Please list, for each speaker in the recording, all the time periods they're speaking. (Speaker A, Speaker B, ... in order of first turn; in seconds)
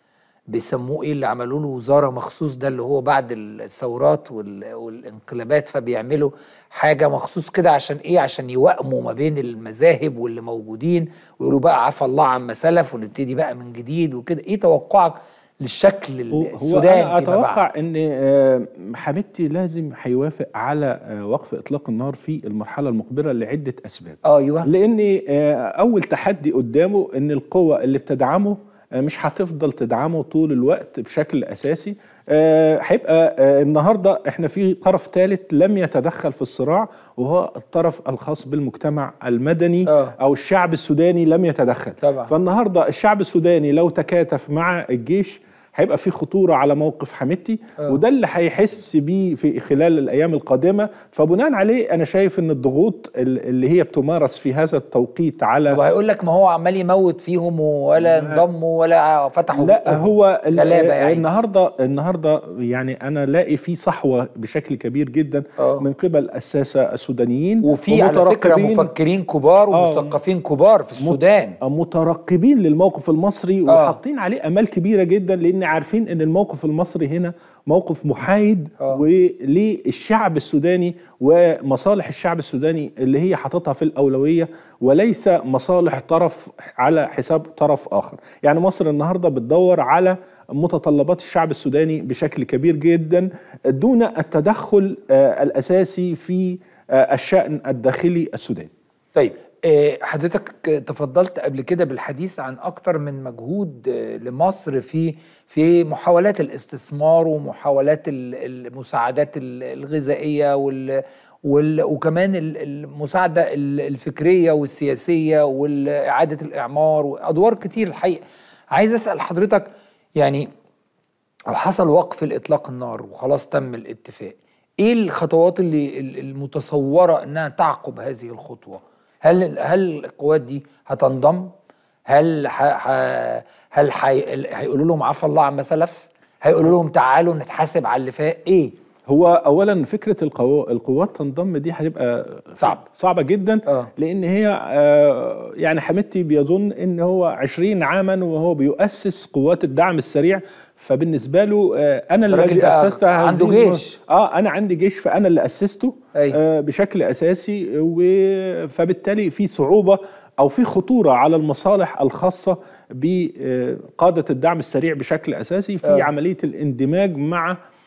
Speaker A: 0.5-17.6, 24.2-24.7, 39.9-40.1, 42.0-42.3, 55.7-61.3, 65.6-65.8, 67.6-71.6, 73.7-74.0, 99.1-120.5, 121.5-131.5, 132.1-138.7, 142.6-142.8, 152.3-154.0
Speaker B: 16.3-55.8, 58.0-58.4, 59.5-68.9, 69.7-70.1, 71.0-98.7, 139.1-167.6